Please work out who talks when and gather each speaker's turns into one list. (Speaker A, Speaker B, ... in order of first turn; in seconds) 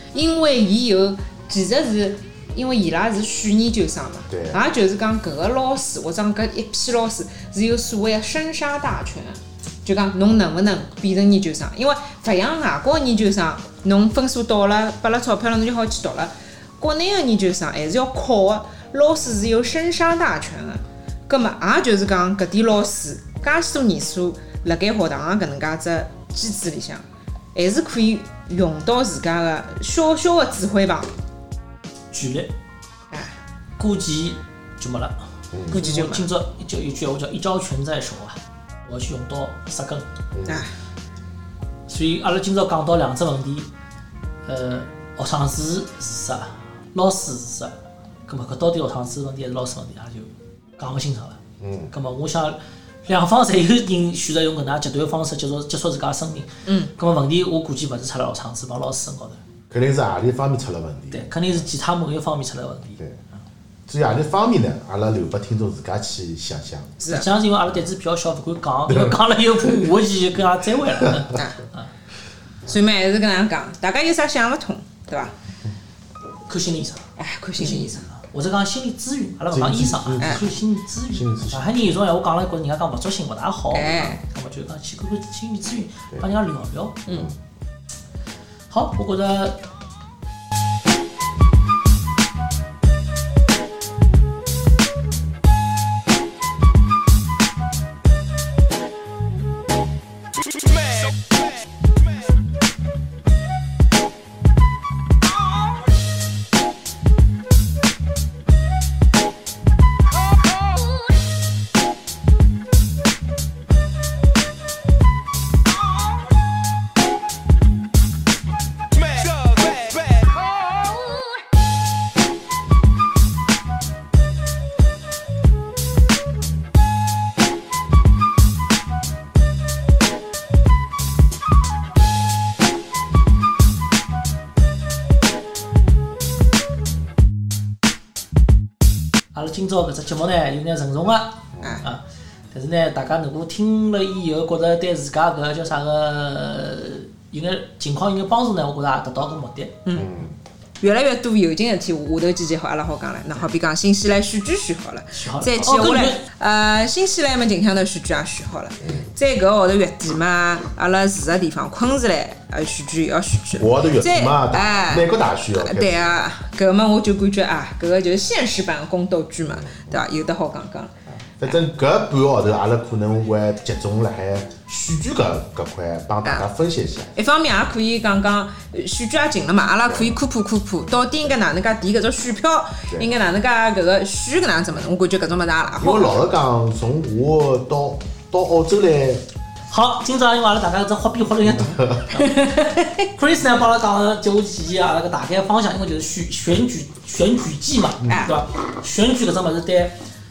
Speaker A: 0.1-31.1, 33.1-33.4, 35.7-36.2, 67.0-67.3, 72.7-75.3, 77.2-78.0, 83.7-84.2, 149.8-150.1, 150.8-171.5, 177.2-186.2, 192.2-193.1, 198.1-198.3
Speaker B: 4.3-4.6, 35.5-35.8, 40.3-40.6, 51.6-51.9, 59.7-61.6, 63.9-67.0, 68.9-69.1, 79.5-80.5, 81.1-81.9, 87.1-87.3, 149.9-150.3, 163.6-166.2, 169.5-170.0, 171.1-177.1, 179.9-180.2, 185.8-189.3, 191.4-192.1, 198.0-198.3
Speaker C: 32.1-32.5, 33.8-40.1, 41.9-43.7, 44.5-47.7, 48.3-59.4, 61.1-63.0, 67.1-71.9, 76.5-77.0, 77.6-87.0, 88.7-89.6, 139.3-149.8, 155.1-156.2, 189.7-200.0